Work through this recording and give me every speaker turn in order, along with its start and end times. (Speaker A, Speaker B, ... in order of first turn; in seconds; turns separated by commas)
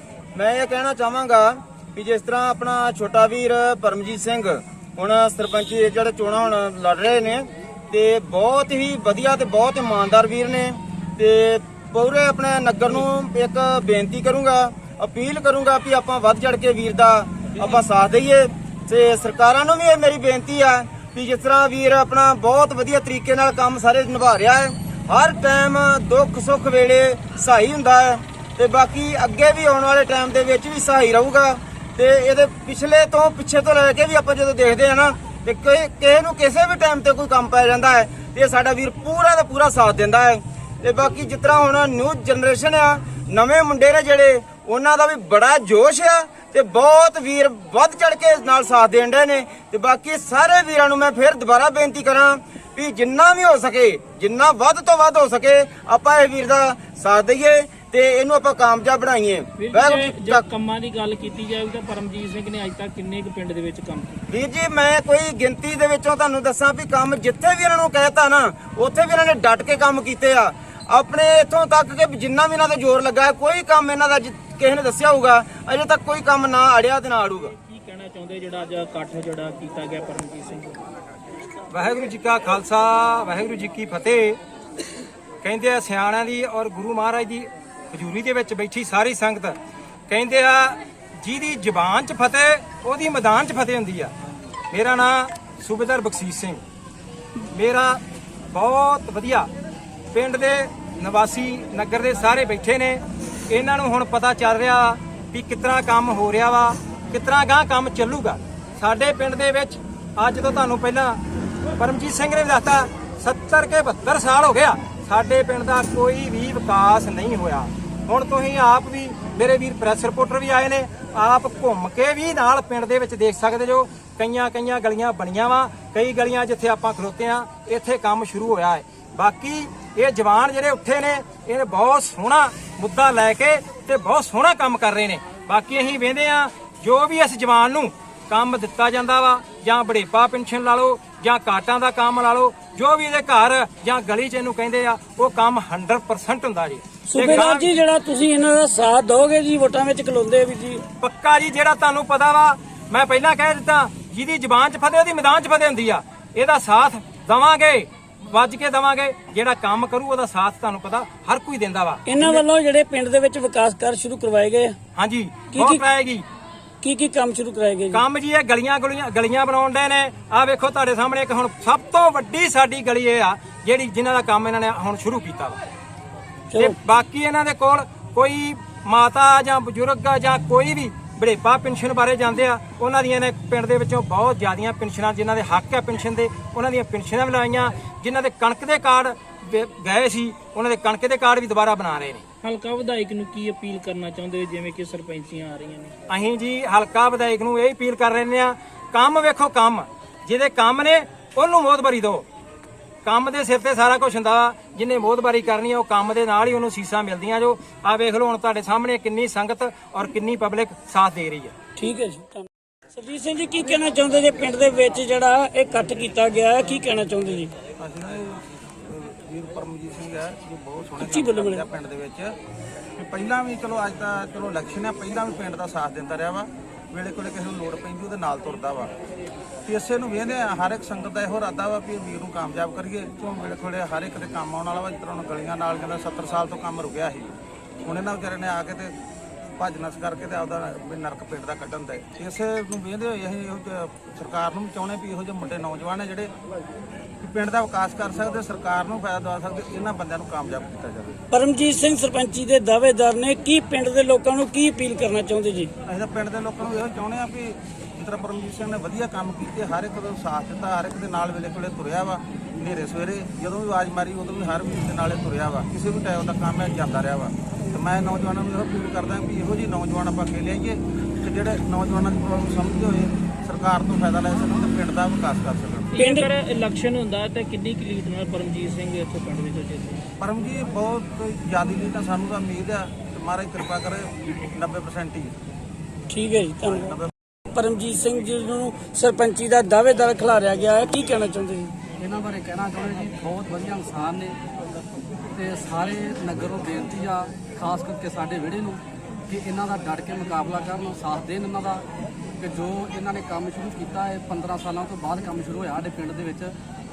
Speaker A: 0.3-60.4, Speaker B: 59.6-64.2, Speaker A: 64.3-77.5, Speaker B: 77.6-80.8, Speaker C: 81.7-84.4, Speaker C: 85.4-89.6, Speaker C: 90.1-94.1, Speaker C: 94.7-96.6, Speaker C: 97.5-98.0, Speaker C: 98.5-99.5, Speaker C: 100.1-111.2, Speaker C: 111.8-147.8, Speaker D: 147.1-150.8, Speaker C: 151.0-162.4, Speaker D: 162.1-164.8, Speaker C: 165.0-166.3, Speaker D: 165.5-165.8, Speaker D: 166.8-168.0, Speaker C: 167.9-175.6, Speaker D: 176.5-176.8, Speaker C: 176.6-192.2, Speaker B: 192.4-195.9, Speaker C: 196.1-202.3, Speaker C: 203.0-211.5, Speaker D: 211.8-217.5, Speaker E: 217.8-222.4, Speaker D: 221.0-221.6, Speaker E: 223.0-228.9, Speaker E: 229.7-238.9, Speaker E: 239.6-246.3, Speaker E: 247.2-251.2, Speaker D: 251.3-255.7, Speaker E: 255.8-276.0, Speaker B: 275.9-280.0, Speaker D: 276.0-276.3, Speaker E: 280.2-285.4, Speaker D: 286.1-286.9, Speaker E: 286.6-287.1, Speaker D: 287.5-291.8, Speaker F: 292.0-294.4, Speaker F: 295.3-301.9, Speaker F: 302.4-306.5